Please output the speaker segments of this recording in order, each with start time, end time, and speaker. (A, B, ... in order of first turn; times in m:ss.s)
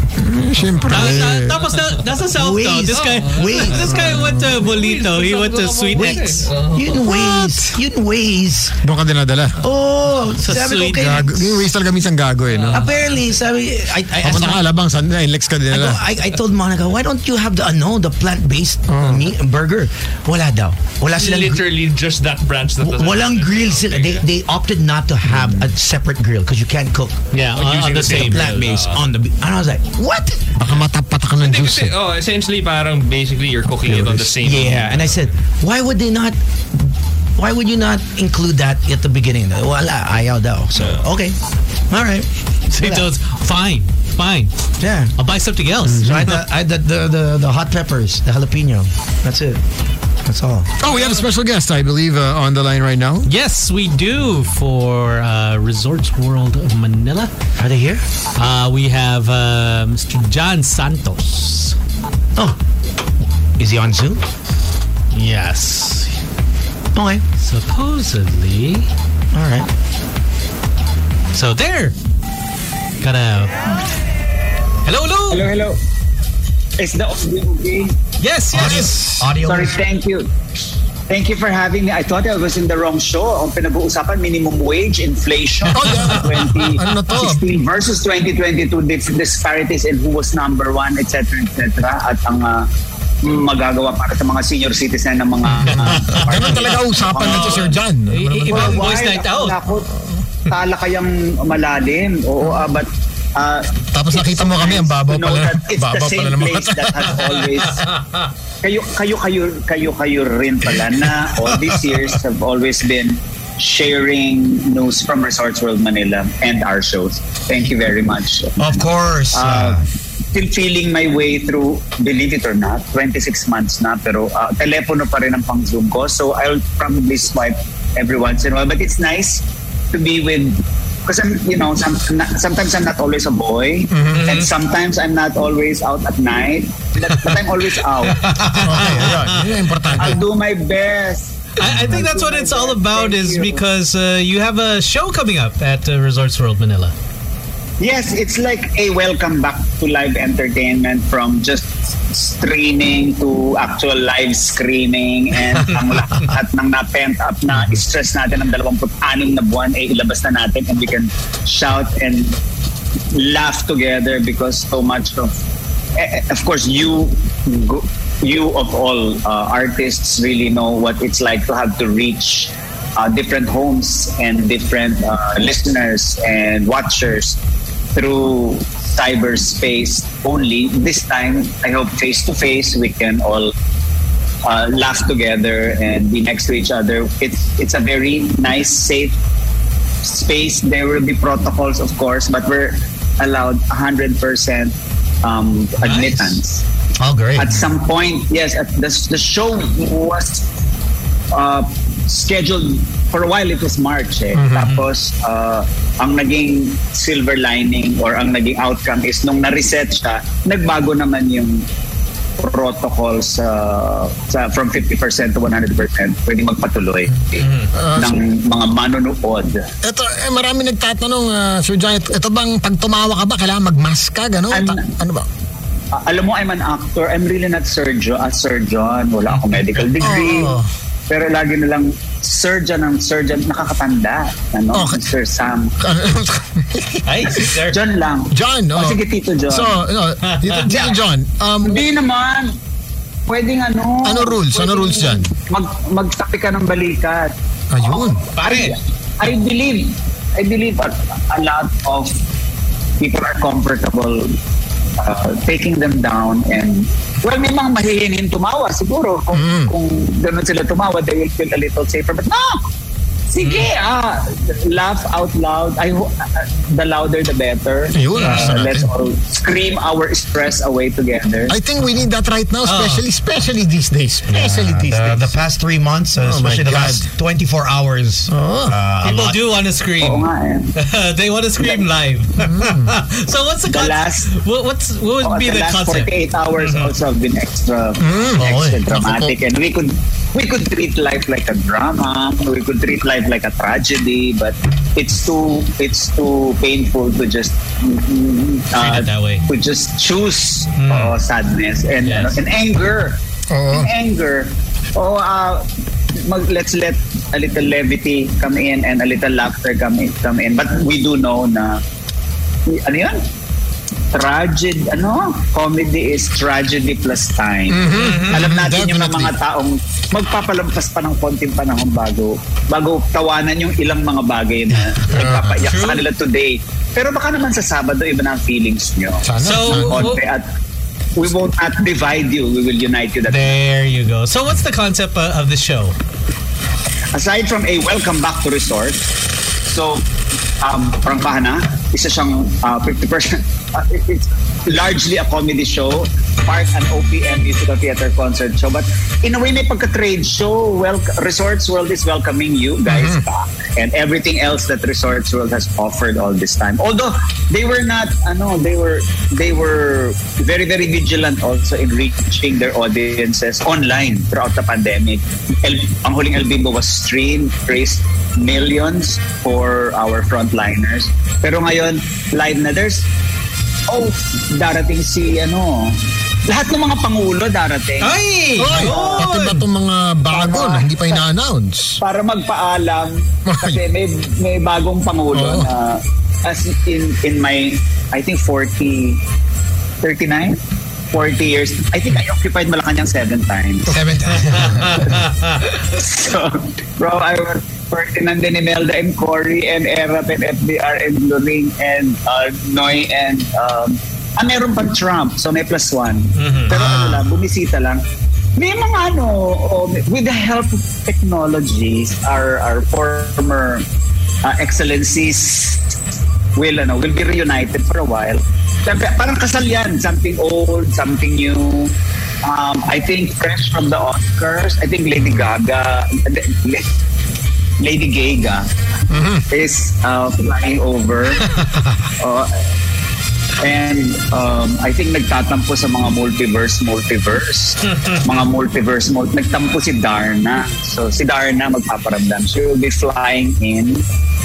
0:00.2-0:01.6 A
0:00.6-0:01.2 B
0:00.9-0:06.5 C
0:02.3-0:04.1 D
0:02.9-0:07.0 B
0:06.0-0:08.8 D
0:07.0-0:07.8 A
0:08.8-0:09.6 A
0:09.6-0:11.7 D
0:10.4-0:11.3 C
0:11.0-0:12.9 A
0:12.5-0:12.9 B
0:12.7-0:14.6 D
0:14.2-0:16.0 A
0:15.7-0:21.7 D
0:18.9-0:19.3 A
0:21.2-0:24.2 B
0:22.8-0:27.2 D
0:25.3-0:25.6 A
0:27.3-0:28.6 C
0:27.5-0:29.0 B
0:28.0-0:30.6 D
0:30.6-0:31.9 A
0:31.4-0:35.3 B
0:33.9-0:41.4 D
0:40.8-0:41.1 B
0:41.9-0:43.1 D
0:42.7-0:44.5 C
0:44.8-0:45.1 D
0:45.2-0:46.3 C
0:45.9-0:49.6 D
0:50.2-0:50.7 D
0:50.8-0:53.3 A
0:50.8-0:51.3 B
0:53.2-0:57.3 C
0:57.6-0:58.0 D
0:58.4-1:01.8 C
1:03.6-1:04.2 D
1:05.1-1:06.1 C
1:06.9-1:07.2 D
1:07.4-1:08.9 C
1:09.3-1:09.7 D
1:11.3-1:12.0 C
1:13.0-1:13.6 C
1:14.9-1:15.5 C
1:15.3-1:15.8 E
1:16.8-1:18.0 E
1:18.2-1:19.2 C
1:18.5-1:19.8 D
1:19.4-1:20.3 E
1:21.1-1:32.7 E
1:25.7-1:27.5 A
1:33.2-1:37.8 E
1:35.5-1:39.0 A
1:37.3-1:39.6 C
1:38.5-1:39.9 E
1:39.9-1:40.2 A
1:40.4-1:47.9 E
1:43.9-1:47.6 A
1:47.8-1:48.2 C
1:48.6-2:18.4 E
1:58.6-1:59.9 D
2:13.9-2:14.2 A
2:14.1-2:14.5 C
2:18.2-2:19.4 C
2:18.3-2:19.0 D
2:18.6-2:20.2 A
2:20.0-2:23.6 E
2:21.6-2:26.9 C
2:27.8-2:42.4 E
2:43.1-2:45.4 E
2:46.0-2:57.4 E
2:58.0-3:03.5 E
3:04.4-3:09.2 E
3:10.0-3:16.6 E
3:17.0-3:17.6 D
3:17.4-3:20.5 E
3:21.3-3:31.7 E
3:24.4-3:24.8 A
3:32.4-3:39.6 E
3:37.4-3:37.7 C
3:37.7-3:38.2 A
3:39.8-3:45.3 A
3:44.5-3:44.9 E
3:45.9-3:55.8 E
3:50.0-3:50.7 A
3:54.7-3:55.1 A
3:55.8-3:57.5 A
3:57.1-3:57.8 C
3:57.7-3:59.8 E
3:58.3-4:01.8 A
4:00.2-4:00.7 C
4:00.7-4:01.0 E
4:01.6-4:02.6 E
4:03.3-4:12.2 E
4:04.0-4:05.3 A
4:07.7-4:08.2 A
4:08.3-4:08.8 C
4:13.0-4:14.4 E
4:15.0-4:22.6 E
4:19.3-4:19.7 A
4:23.3-4:31.6 E
4:23.4-4:23.7 C
4:27.9-4:28.9 A
4:28.2-4:28.5 C
4:31.5-4:35.3 A
4:32.6-4:33.0 C
4:34.3-4:39.4 D
4:36.2-4:37.1 A
4:38.3-4:38.8 A
4:39.0-4:46.9 C
4:40.0-4:40.7 E
4:41.6-4:41.9 E
4:42.4-4:43.0 A
4:43.7-4:44.3 E
4:45.2-5:11.8 E
4:48.0-4:49.3 A
4:48.4-4:48.8 D
4:58.8-4:59.5 C
5:00.8-5:01.2 C
5:02.0-5:02.4 C
5:03.5-5:03.9 A
5:12.7-5:13.3 E
5:14.1-5:30.5 E
5:17.7-5:19.3 A
5:17.9-5:18.5 C
5:25.1-5:26.0 C
5:25.2-5:25.5 A
5:29.2-5:30.1 A
5:29.4-5:30.2 C
5:31.2-5:33.6 E
5:33.3-5:36.0 C
5:37.1-5:39.0 E
5:39.6-5:40.0 E
5:40.6-6:13.1 E
5:52.9-5:53.2 A
6:13.9-6:19.3 E
6:18.0-6:19.7 C
6:18.6-6:22.0 A
6:20.3-6:21.3 E
6:22.0-6:29.2 E
6:23.5-6:23.8 A
6:25.3-6:25.7 A
6:30.0-6:30.6 E
6:31.1-6:34.0 E
6:33.9-6:34.8 D
6:34.6-6:35.5 C
6:34.9-6:48.0 E
6:46.4-6:46.7 C
6:46.7-6:47.2 D
6:48.6-6:53.9 E
6:54.4-6:56.0 E
6:56.6-7:06.9 E
7:05.2-7:05.4 A
7:07.8-7:08.7 E
7:09.1-7:09.4 A
7:09.5-7:11.5 E
7:12.2-7:12.5 E
7:13.6-7:24.0 E